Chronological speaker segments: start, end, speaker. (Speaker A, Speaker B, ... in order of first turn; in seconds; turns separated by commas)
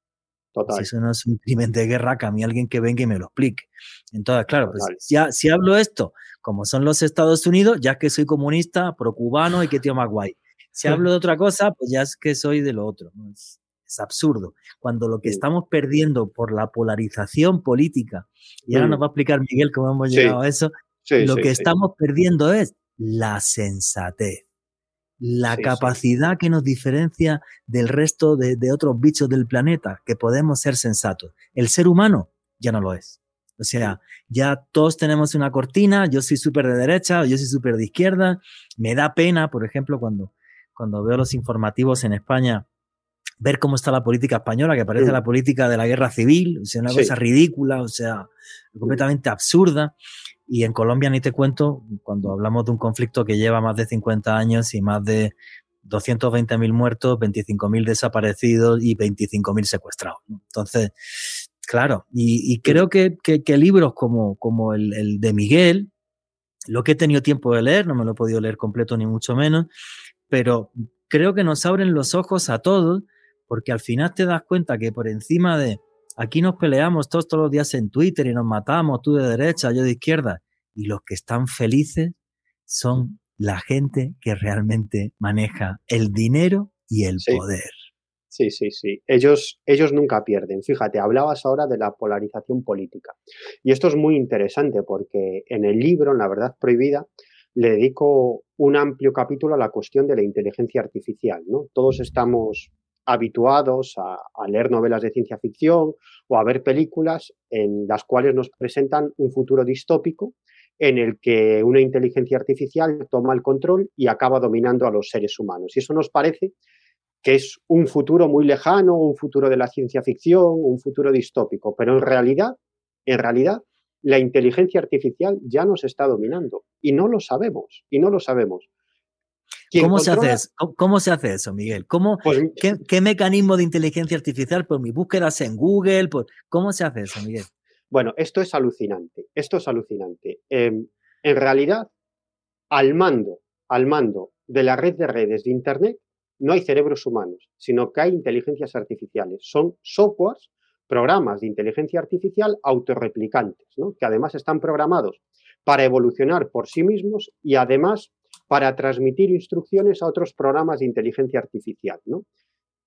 Speaker A: 0.5-0.9, Speaker B: 0.7-24.4, Speaker A: 4.7-5.0, Speaker A: 18.7-19.0, Speaker A: 20.1-20.4, Speaker A: 21.0-21.7, Speaker B: 25.2-42.6, Speaker A: 25.5-26.0, Speaker B: 43.4-49.9, Speaker A: 46.9-47.1, Speaker B: 50.5-61.0, Speaker B: 61.6-65.9, Speaker B: 66.7-69.7, Speaker B: 70.3-82.2, Speaker B: 82.7-87.8, Speaker A: 88.3-116.5, Speaker A: 117.2-128.7, Speaker A: 129.7-130.4, Speaker B: 129.7-137.5, Speaker A: 132.2-132.6, Speaker A: 137.9-141.9, Speaker A: 142.7-162.2